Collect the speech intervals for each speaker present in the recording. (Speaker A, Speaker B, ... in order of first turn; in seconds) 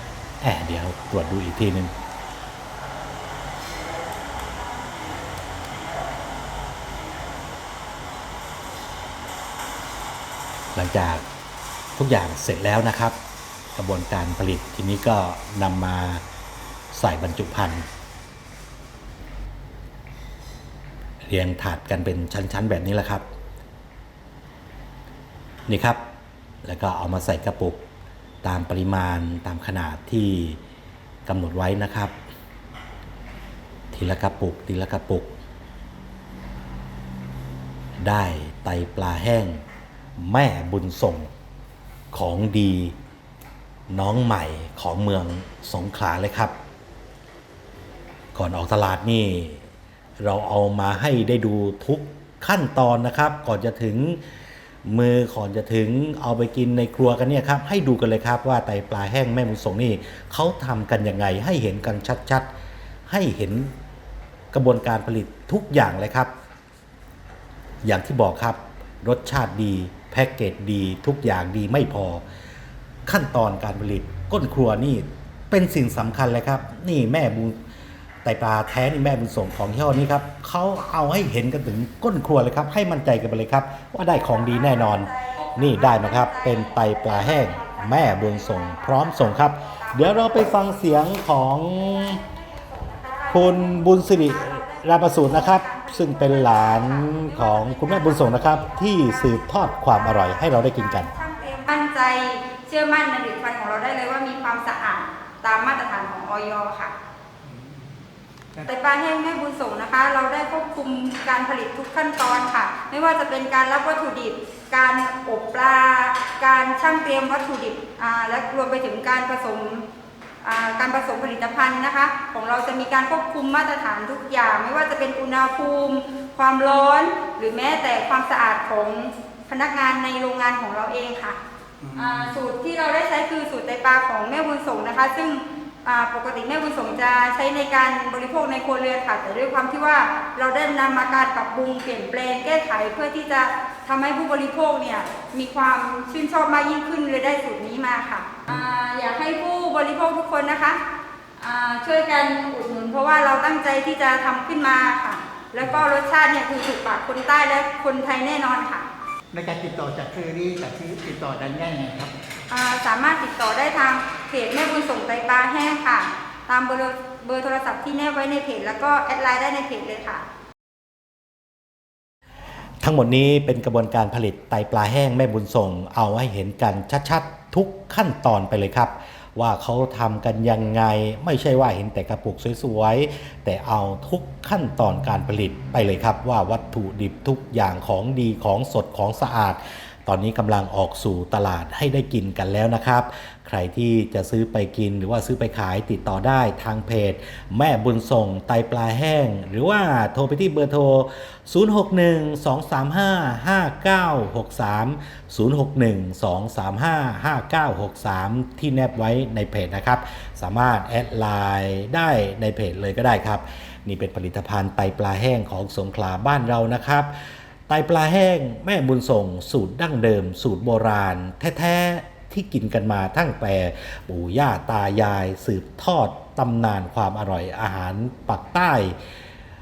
Speaker A: 0.4-1.9, 10.8-11.2, 12.0-13.2, 13.8-16.2, 16.9-17.9, 21.2-23.3, 25.7-26.0, 26.6-27.8, 28.4-30.6, 31.3-32.1, 33.9-35.4, 38.0-39.6, 40.2-41.3, 42.1-43.0, 43.9-46.5, 48.4-49.6, 50.2-54.2, 54.9-62.5, 63.1-63.7, 64.5-66.3, 67.8-72.2, 73.1-77.6, 78.2-92.2, 93.3-101.1, 172.8-217.1, 217.7-229.0
Speaker B: 84.5-90.5, 92.8-99.0, 101.0-106.9, 108.7-119.9, 120.4-131.4, 131.9-150.8, 151.4-158.9, 162.5-170.2
Speaker C: 107.4-107.9, 131.8-132.4, 159.3-162.1